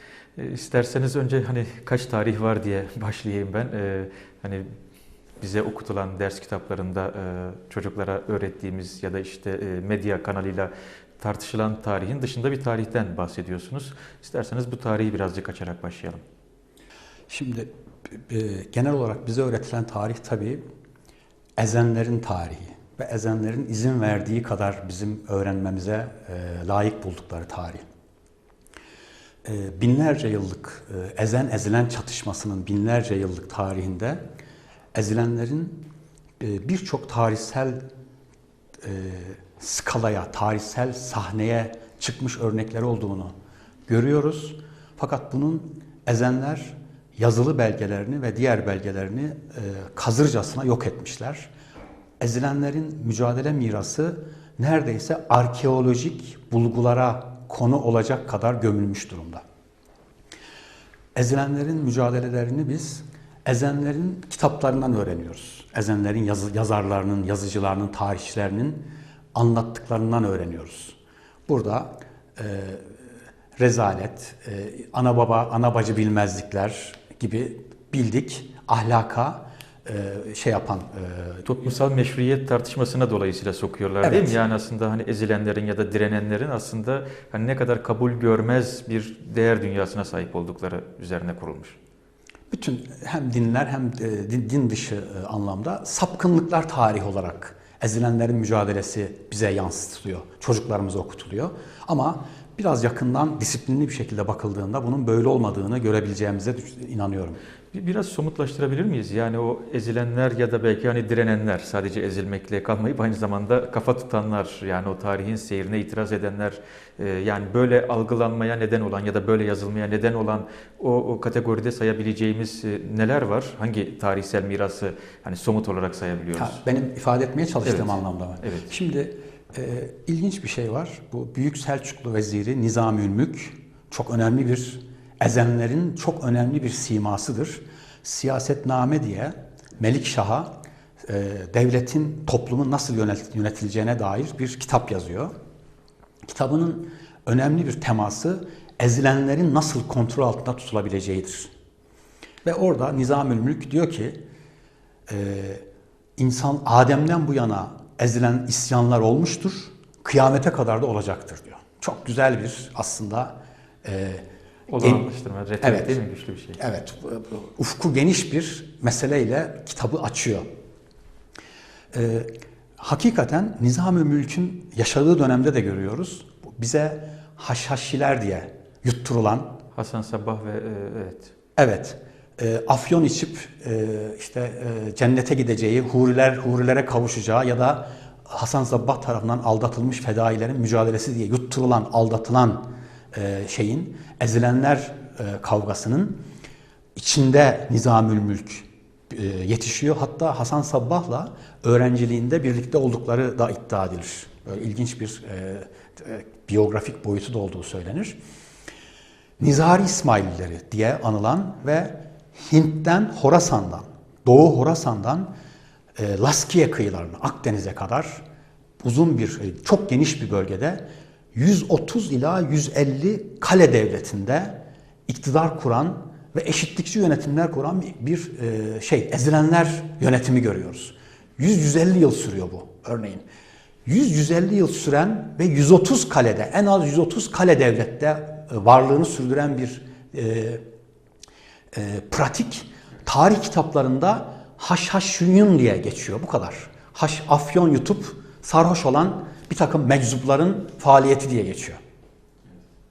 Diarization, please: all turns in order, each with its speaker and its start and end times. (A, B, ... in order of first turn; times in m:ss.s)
0:00.4-0:04.7 A
0:05.4-0:16.2 A
0:17.3-0:20.6 B
0:21.6-0:27.8 B
0:29.4-0:34.2 B
0:34.9-0:35.8 B
0:36.4-0:37.8 B
0:38.8-0:43.3 B
0:43.9-0:51.5 B
0:52.2-0:59.4 B
1:01.1-1:12.9 B
1:13.6-1:21.4 B
1:21.4-1:31.8 A
1:24.0-1:24.4 B
1:32.5-1:47.4 B
1:47.7-2:06.6 A
2:06.3-2:20.5 B
2:07.7-2:07.9 A
2:21.0-2:25.3 B
2:26.2-2:31.5 B
2:32.4-2:34.2 B
2:35.1-2:35.6 B
2:36.2-2:44.2 B
2:44.7-2:46.6 A
2:45.6-2:46.0 B
2:46.6-2:50.4 B
2:51.9-2:59.6 B
2:59.7-3:01.3 A
3:01.6-3:16.2 B
3:17.0-3:28.2 B
3:29.4-3:35.3 B
3:36.0-3:38.2 B
3:38.8-3:40.8 B
3:41.3-3:53.2 B
3:53.8-4:00.6 B
4:01.7-4:11.8 B